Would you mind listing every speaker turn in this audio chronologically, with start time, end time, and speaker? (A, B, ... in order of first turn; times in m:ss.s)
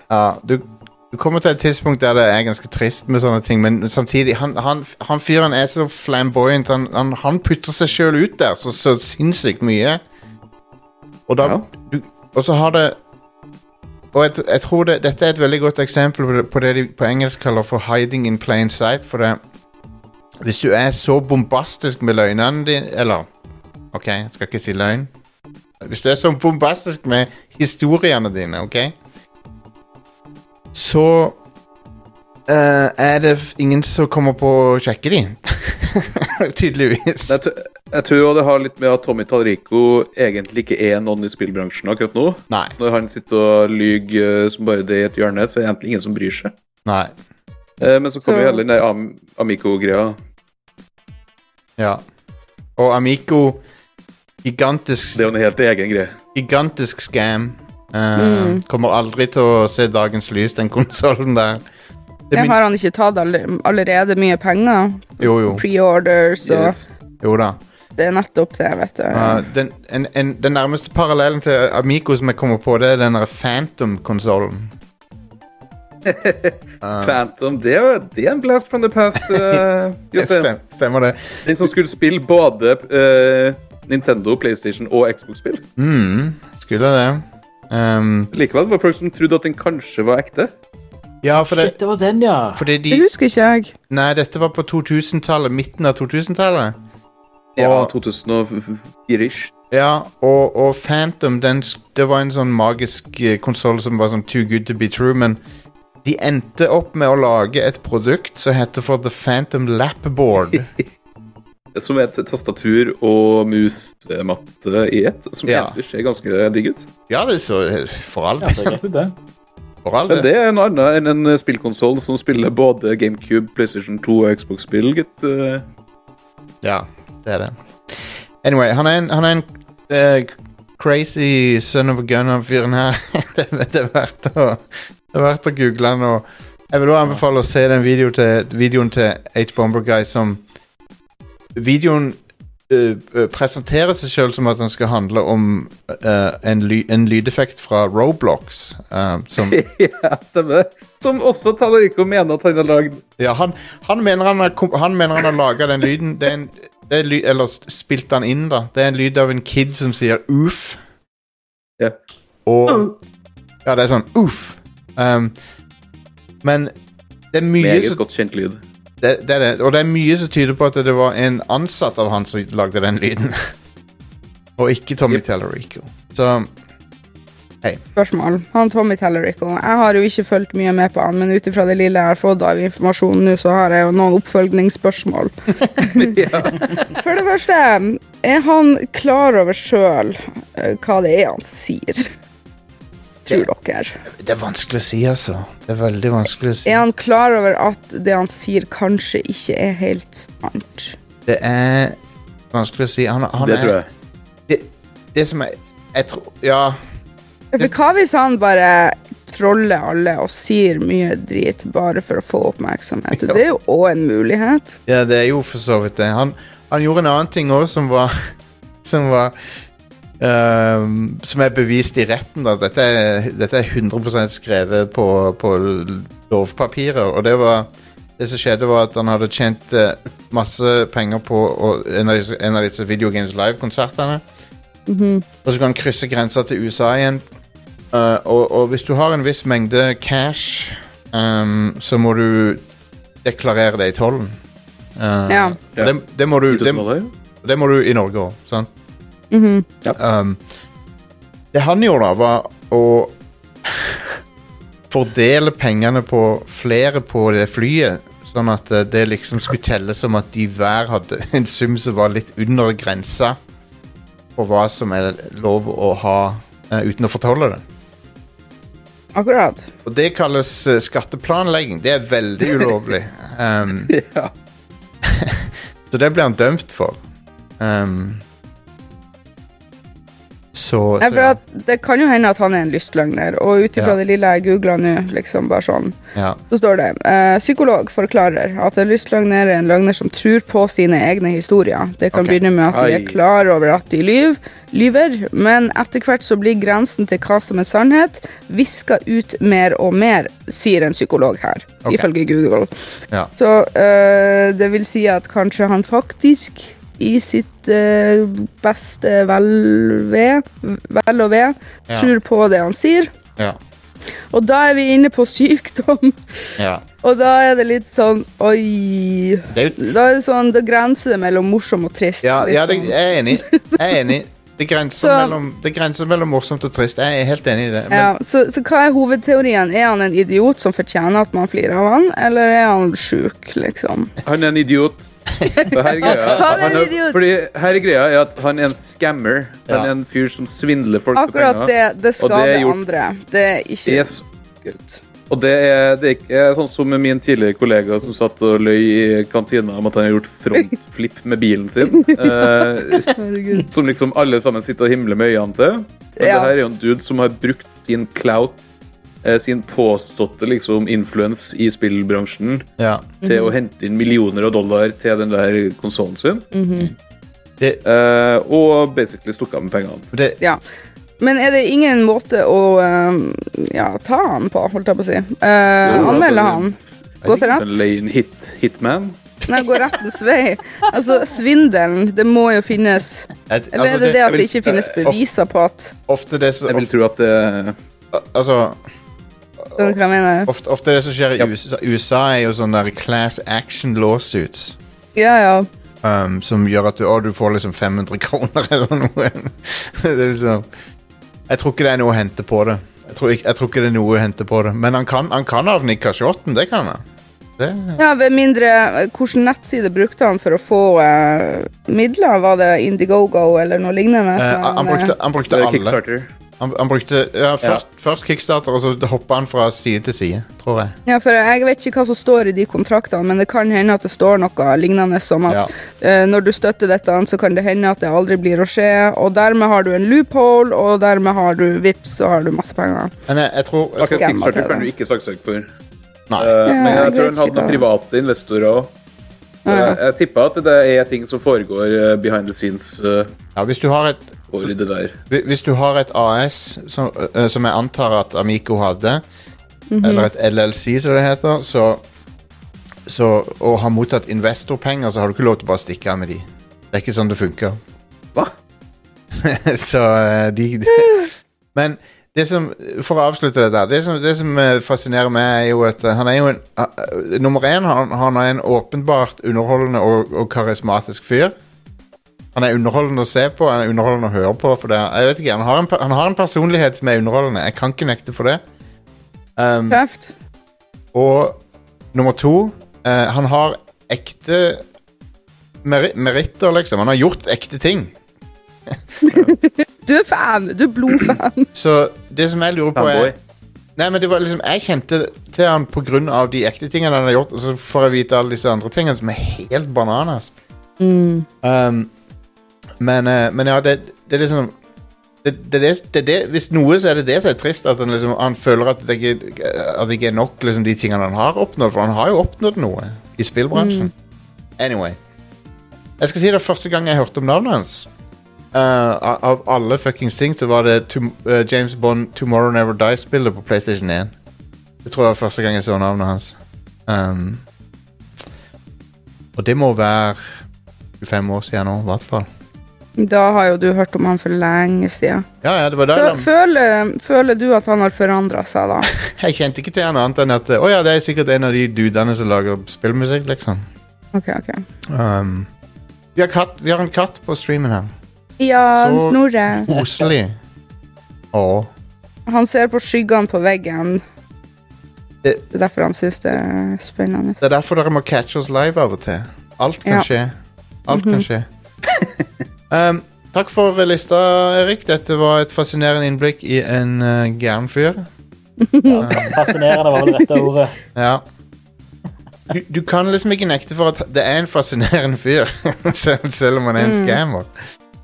0:00.1-0:10.0 A
0:11.3-0:13.0 A
0:14.1-0:19.4 A
0:20.4-0:23.3 A
0:23.9-0:25.1 A
0:25.8-0:29.0 A
0:30.7-0:31.4 A
0:32.5-0:37.4 A
0:37.3-0:46.5 B
0:42.5-0:42.8 A
0:46.9-0:47.1 A
0:47.8-0:50.2 B
0:48.2-0:48.6 C
0:51.8-0:52.0 A
0:52.8-0:53.6 A
0:54.4-0:55.3 A
0:55.2-0:56.2 B
0:56.4-1:01.6 A
0:58.2-0:58.6 C
1:02.3-1:02.6 A
1:02.3-1:06.8 C
1:05.2-1:05.6 A
1:06.4-1:06.9 B
1:07.2-1:07.6 A
1:08.0-1:09.5 C
1:09.1-1:14.7 A
1:16.0-1:20.5 B
1:16.8-1:17.2 A
1:19.2-1:19.6 A
1:20.2-1:21.4 A
1:21.4-1:25.6 B
1:25.8-1:28.3 A
1:28.3-1:30.5 B
1:31.2-1:31.8 A
1:31.4-1:32.7 D
1:32.5-1:33.1 A
1:32.9-1:33.7 C
1:33.9-1:36.8 A
1:37.6-1:39.5 B
1:37.6-1:37.9 A
1:39.7-1:45.4 A
1:46.0-1:50.7 A
1:50.5-1:50.8 B
1:51.8-1:56.9 B
1:55.5-1:55.8 A
1:57.1-1:58.8 A
1:58.4-1:59.2 D
1:59.8-2:00.3 A
2:00.1-2:05.6 B
2:06.6-2:20.4 A
2:21.6-2:22.2 A
2:22.7-2:29.6 A
2:29.4-2:33.0 B
2:33.2-2:40.8 A
2:42.5-2:42.9 A
2:42.7-2:42.9 B
2:43.6-2:45.4 A
2:46.4-2:46.7 A
2:47.3-2:48.0 A
2:47.6-2:48.6 B
2:49.0-2:53.5 A
2:54.6-2:56.5 A
2:58.0-3:06.2 C
3:05.8-3:06.7 B
3:06.9-3:12.1 C
3:13.3-3:14.0 C
3:14.2-3:16.8 A
3:16.6-3:21.0 C
3:21.3-3:22.0 A
3:22.5-3:23.8 A
3:23.4-3:23.9 B
3:24.5-3:26.8 A
3:27.5-3:34.8 C
3:34.9-3:38.3 A
3:38.8-3:39.3 A
3:40.2-3:54.2 A
3:54.9-3:55.2 C
3:55.4-3:57.2 A
3:57.9-4:02.6 A
4:03.2-4:04.4 A
4:05.0-4:06.8 A
4:05.3-4:05.6 C
4:06.5-4:07.1 B
4:07.4-4:08.7 A
4:09.3-4:09.7 C
4:10.0-4:10.4 A
4:11.5-4:14.1 A
4:14.9-4:23.4 A
4:24.4-4:27.6 A
4:29.2-4:29.7 C
4:29.8-4:33.9 A
4:33.9-4:34.3 B
4:35.0-4:37.0 A
4:37.6-4:38.2 A
4:40.5-4:41.4 A
4:41.0-4:46.0 C
4:46.5-5:02.7 C
4:52.7-4:53.2 B
5:01.8-5:02.1 A
5:03.4-5:13.1 C
5:14.3-5:16.2 C
5:16.6-5:16.8 A
5:17.0-5:24.0 C
5:19.5-5:19.9 A
5:22.2-5:28.1 A
5:25.0-5:25.4 C
5:27.9-5:34.1 C
5:34.2-5:35.1 B
5:35.5-5:37.2 C
5:35.6-5:42.8 B
5:41.2-5:44.1 C
5:43.9-5:44.2 B
5:44.6-5:45.0 C
5:45.3-5:53.1 B
5:51.9-5:53.7 C
5:53.6-5:58.7 B
5:56.2-5:56.5 C
5:59.2-6:02.7 B
6:02.8-6:03.1 A
6:03.2-6:06.5 B
6:03.2-6:03.5 C
6:06.5-6:06.9 C
6:07.8-6:10.1 B
6:10.1-6:10.4 A
6:11.2-6:17.8 C
6:15.8-6:16.7 B
6:17.2-6:17.5 A
6:17.5-6:19.2 B
6:19.5-6:25.9 C
6:23.5-6:24.3 A
6:24.3-6:24.9 B
6:26.1-6:26.9 A
6:26.7-6:27.8 B
6:28.1-6:28.8 A
6:29.6-6:34.8 A
6:29.8-6:30.5 C
6:35.2-6:35.7 C
6:36.0-6:40.7 A
6:41.5-6:47.0 A
6:47.6-6:48.0 A
6:48.0-6:55.1 C
6:54.4-6:56.0 A
6:55.5-6:56.3 B
6:56.6-7:00.9 A
7:01.1-7:13.1 C
7:13.3-7:14.3 A
7:14.0-7:15.7 B
7:14.1-7:14.9 C
7:16.3-7:16.6 A
7:16.4-7:18.9 B
7:16.7-7:17.8 C
7:19.7-7:20.0 C
7:19.7-7:23.3 B
7:23.6-7:24.3 A
7:24.5-7:25.2 B
7:25.3-7:29.2 A
7:29.9-7:30.3 C
7:30.0-7:32.0 A
7:33.1-7:37.8 A
7:39.3-7:51.5 A
7:52.6-7:58.6 A
7:59.6-8:00.0 A
7:59.9-8:00.3 C
8:01.1-8:01.6 A
8:02.1-8:04.8 A
8:05.8-8:08.2 A
8:09.3-8:11.7 C
8:11.8-8:13.4 A
8:13.0-8:13.4 B
8:14.0-8:20.5 A
8:21.0-8:21.5 C
8:21.6-8:22.1 A
8:23.0-8:24.7 A
8:25.4-8:34.1 A
8:33.7-8:34.1 C
8:34.8-8:35.2 A
8:36.2-8:38.1 A
8:38.7-8:44.3 A
8:45.0-8:47.6 A
8:49.6-8:50.5 A
8:51.2-8:52.5 A
8:53.2-8:55.4 C
8:55.6-8:56.5 A
8:56.1-8:59.1 C
8:59.2-9:03.8 A
9:04.3-9:04.8 C
9:05.1-9:05.7 A
9:06.4-9:08.1 A
9:08.6-9:09.9 C
9:09.0-9:10.6 A
9:11.5-9:11.9 A
9:12.5-9:14.2 C
9:15.7-9:17.6 C
9:17.6-9:20.5 A
9:21.1-9:21.7 A
9:21.1-9:21.4 C
9:22.9-9:28.3 A
9:28.8-9:29.6 C
9:29.2-9:31.0 D
9:29.2-9:29.6 A
9:30.2-9:30.6 C
9:31.2-9:31.4 A
9:32.7-9:37.7 A
9:37.0-9:37.4 C